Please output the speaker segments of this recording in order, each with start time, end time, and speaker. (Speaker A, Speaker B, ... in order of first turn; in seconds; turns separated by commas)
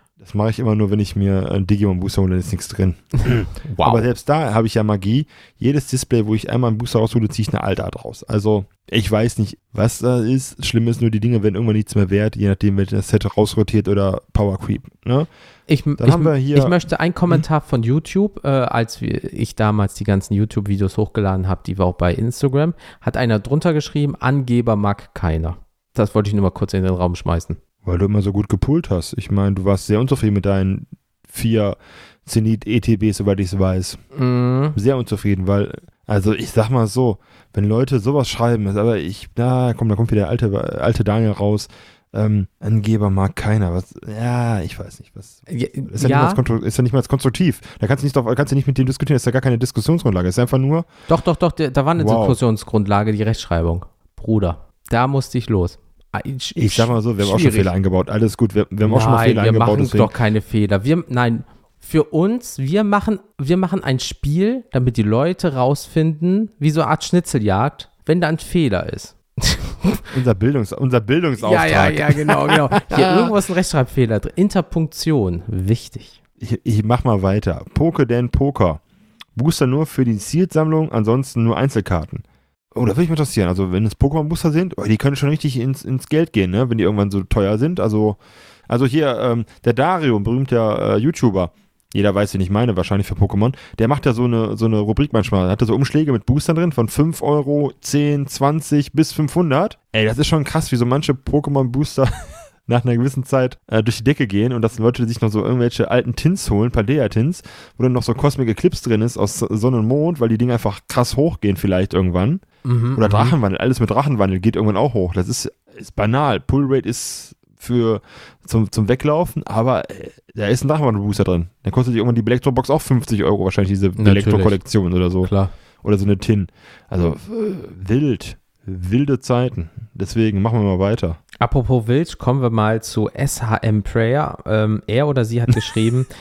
Speaker A: 0.2-15.3, Speaker B: 3.6-4.1, Speaker B: 15.7-27.6, Speaker A: 16.0-16.8, Speaker A: 27.8-34.0, Speaker B: 34.1-34.8, Speaker A: 34.8-50.9, Speaker B: 45.5-46.4, Speaker B: 51.1-57.7, Speaker A: 52.0-52.4, Speaker A: 56.6-60.1, Speaker B: 58.8-70.0, Speaker A: 70.1-73.3, Speaker B: 71.4-76.2, Speaker A: 76.4-78.8, Speaker A: 79.4-102.1, Speaker A: 102.7-112.4, Speaker B: 112.7-113.4, Speaker A: 113.0-125.3, Speaker B: 124.0-124.6, Speaker B: 125.2-125.5, Speaker A: 125.8-131.2, Speaker B: 131.4-136.1